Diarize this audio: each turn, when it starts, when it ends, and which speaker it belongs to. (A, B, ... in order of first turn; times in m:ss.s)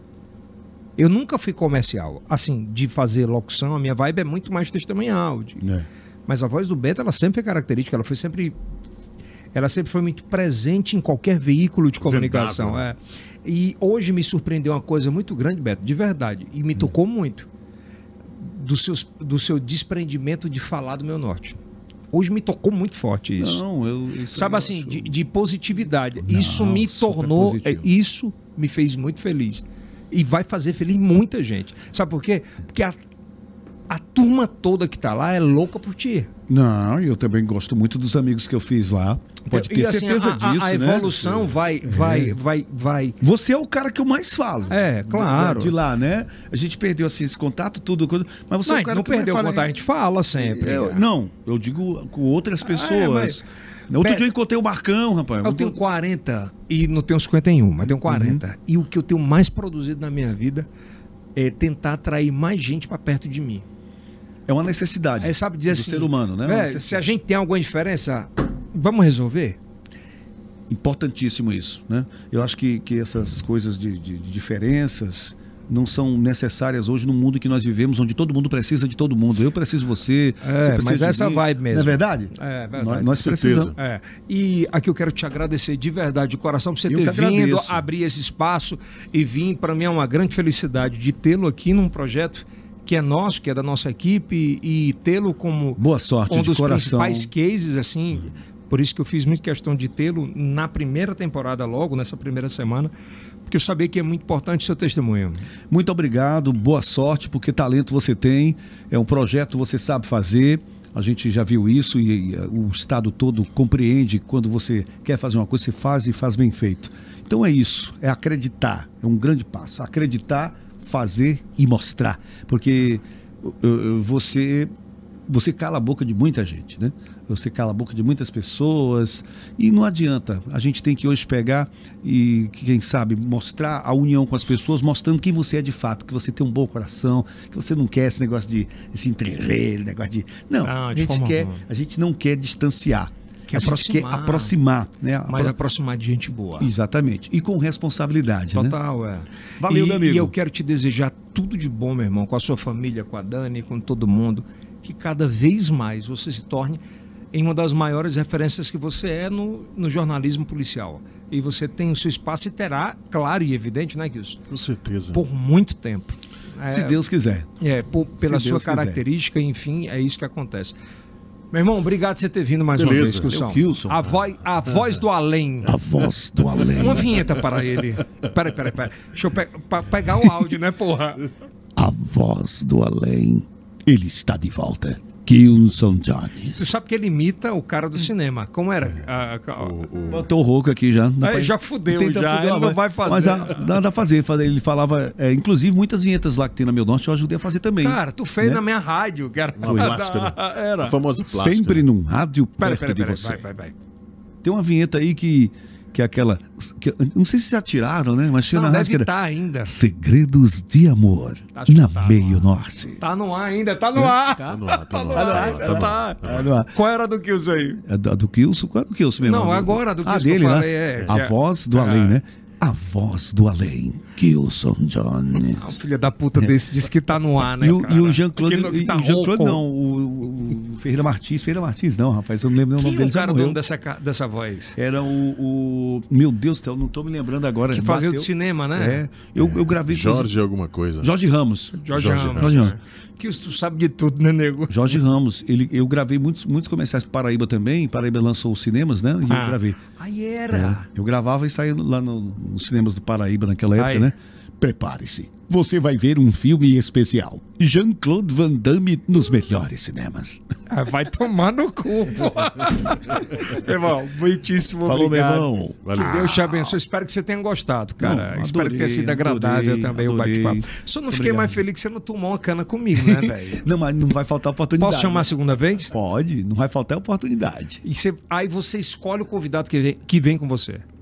0:01.0-0:05.6 A
0:05.6-0:05.9 B
0:06.3-0:08.6 A
0:09.5-0:17.5 A
0:12.0-0:12.8 C
0:18.3-0:21.6 A
0:22.1-0:23.6 A
0:23.4-0:25.1 B
0:24.3-0:33.0 A
0:26.2-0:27.9 B
0:33.9-0:36.3 A
0:36.5-0:42.4 B
0:39.4-0:43.2 A
0:43.2-0:49.7 B
0:44.7-0:45.8 A
0:48.6-0:51.0 A
0:50.3-0:55.8 B
0:52.6-0:53.4 A
0:54.0-0:54.3 A
0:55.4-1:00.7 A
0:57.8-0:58.4 B
1:01.4-1:03.6 A
1:04.5-1:07.0 B
1:05.2-1:09.6 A
1:10.7-1:23.7 B
1:20.4-1:23.1 A
1:23.2-1:23.8 C
1:23.8-1:42.9 A
1:26.9-1:27.8 B
1:35.8-1:37.3 B
1:43.5-1:45.5 A
1:45.7-2:04.7 B
2:05.3-2:25.5 B
2:20.6-2:21.6 A
2:23.5-2:24.5 A
2:25.3-2:26.7 A
2:26.6-2:28.8 B
2:28.5-2:36.8 A
2:29.6-2:30.3 B
2:37.3-2:44.4 A
2:44.5-2:45.2 C
2:45.1-2:47.0 A
2:46.6-2:47.5 B
2:47.6-2:50.7 A
2:48.2-2:49.0 B
2:51.5-2:55.8 A
2:52.7-2:53.3 C
2:52.8-2:54.1 B
2:55.6-2:57.2 B
2:56.8-3:01.3 A
3:01.8-3:06.7 B
3:06.5-3:09.8 A
3:09.6-3:10.2 C
3:10.1-3:18.6 B
3:11.2-3:13.8 A
3:17.8-3:20.9 A
3:19.6-3:21.8 C
3:19.7-3:20.0 B
3:21.3-3:23.4 B
3:22.6-3:23.7 A
3:24.4-3:29.1 B
3:28.5-3:29.7 A
3:29.6-3:33.0 B
3:31.5-3:32.5 A
3:33.0-3:36.2 A
3:33.9-3:34.5 B
3:34.4-3:36.5 C
3:35.1-3:36.7 B
3:36.7-3:37.8 A
3:37.8-3:45.8 B
3:39.2-3:42.2 A
3:45.4-3:49.6 A
3:47.5-3:53.6 B
3:52.8-3:54.8 A
3:54.7-4:00.3 B
3:57.7-3:59.0 A
3:59.4-4:01.1 C
4:01.0-4:02.8 B
4:01.7-4:05.0 A
4:01.9-4:02.7 C
4:04.7-4:09.8 B
4:09.3-4:10.9 A
4:10.5-4:20.4 B
4:13.8-4:14.1 A
4:20.7-4:33.6 A
4:24.8-4:26.7 B
4:25.8-4:26.3 C
4:28.0-4:31.6 B
4:32.9-4:37.8 B
4:34.8-4:35.9 A
4:37.8-4:40.8 A